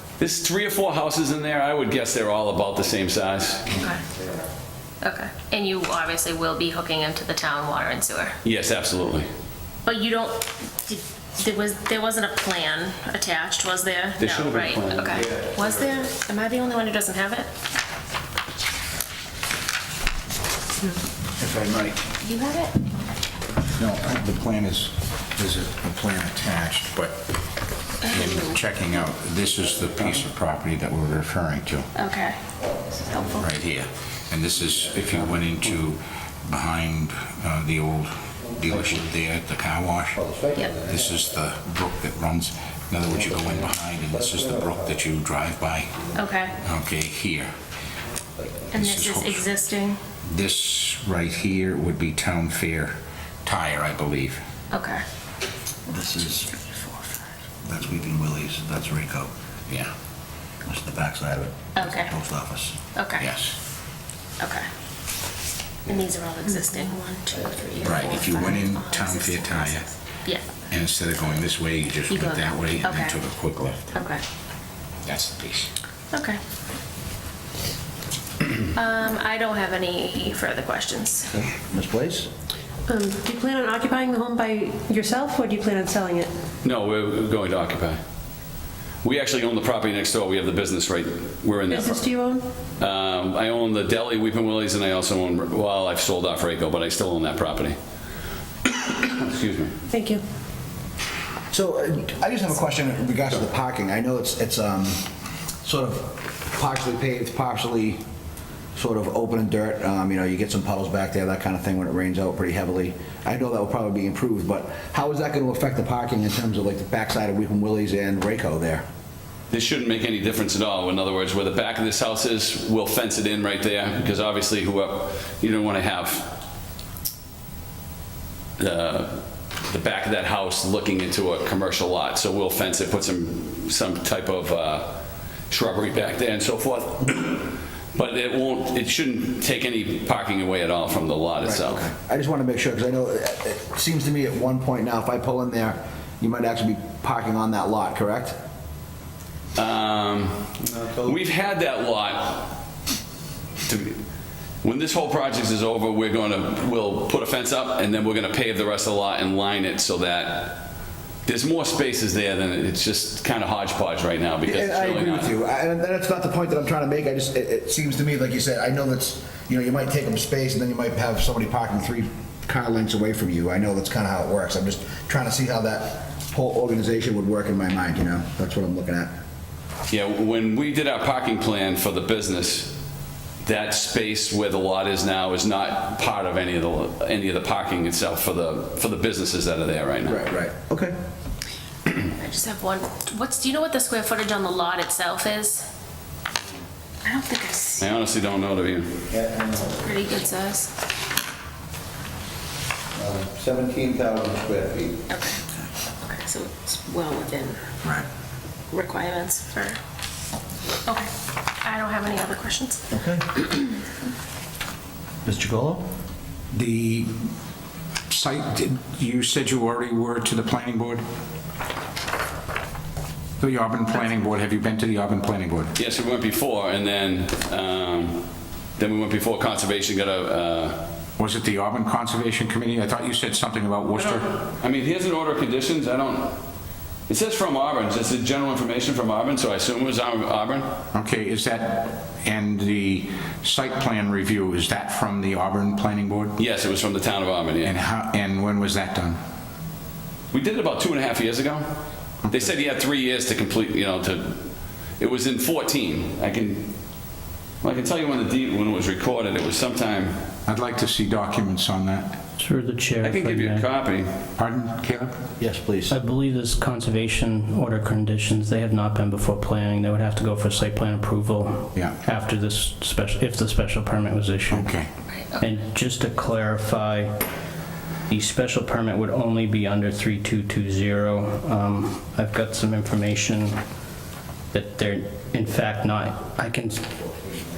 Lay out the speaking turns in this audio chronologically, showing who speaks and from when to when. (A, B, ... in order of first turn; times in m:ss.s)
0:00.2-0:03.7 A
0:03.8-0:04.0 B
0:05.0-0:08.4 B
0:08.4-0:09.3 A
0:09.8-0:17.5 B
0:14.2-0:15.2 A
0:21.4-0:22.0 C
0:22.2-0:22.8 B
0:23.8-0:27.2 C
0:28.0-0:31.9 C
0:32.0-0:32.4 B
0:33.0-0:33.5 B
0:33.4-0:40.2 C
0:40.3-0:40.7 D
0:40.7-0:46.0 C
0:46.2-0:46.5 B
0:46.6-0:47.5 C
0:48.7-0:49.5 C
0:48.7-0:50.0 B
0:50.3-0:52.9 C
0:53.4-0:54.4 C
0:54.7-0:55.0 B
0:55.9-0:56.5 D
0:56.5-0:57.1 B
0:57.6-0:59.3 D
1:00.7-1:02.8 D
1:01.8-1:02.1 B
1:02.9-1:03.3 B
1:03.2-1:03.6 C
1:04.4-1:04.7 B
1:05.9-1:10.4 B
1:07.8-1:09.9 C
1:10.7-1:13.9 C
1:12.1-1:13.2 B
1:13.9-1:14.2 B
1:15.0-1:15.7 C
1:16.1-1:16.4 B
1:18.7-1:21.3 B
1:21.5-1:22.3 D
1:22.9-1:26.3 E
1:26.6-1:28.0 A
1:29.0-1:32.1 A
1:31.7-1:32.4 E
1:32.8-1:37.8 A
1:38.7-1:39.8 A
1:39.9-1:40.2 E
1:41.5-1:45.0 D
1:45.6-1:48.0 D
1:48.8-1:58.8 D
1:59.5-2:06.3 A
2:08.6-2:21.9 A
2:21.4-2:28.4 D
2:29.6-2:32.6 A
2:30.8-2:31.1 D
2:33.7-2:34.0 A
2:34.6-2:40.6 A
2:41.2-2:45.3 A
2:44.4-2:59.2 D
2:59.9-3:02.8 A
3:03.4-3:10.2 A
3:10.1-3:10.9 D
3:12.1-3:15.7 B
3:17.0-3:17.9 B
3:17.8-3:19.0 A
3:19.1-3:19.7 D
3:19.6-3:20.7 B
3:23.0-3:25.0 D
3:25.1-3:25.4 B
3:26.0-3:27.6 B
3:28.7-3:29.8 B
3:31.6-3:32.8 B
3:32.9-3:33.5 D
3:35.2-3:35.8 D
3:36.5-3:37.3 C
3:38.1-3:41.0 C
3:43.4-3:45.7 C
3:45.8-3:48.3 A
3:48.8-3:50.8 A
3:51.2-3:54.2 C
3:54.0-3:56.4 A
3:57.1-4:00.7 A
4:00.9-4:06.4 C
4:06.4-4:07.8 A
4:07.6-4:09.2 C
4:10.3-4:14.5 A
4:15.0-4:16.7 A
4:17.6-4:20.2 A
4:20.5-4:22.2 C
4:22.4-4:23.7 F
4:23.0-4:24.1 A
4:24.4-4:25.2 C
4:25.4-4:25.9 D
4:25.9-4:34.7 F
4:34.5-4:34.9 C
4:35.1-4:35.5 B
4:35.4-4:37.1 F
4:38.1-4:43.5 F
4:44.5-4:46.9 F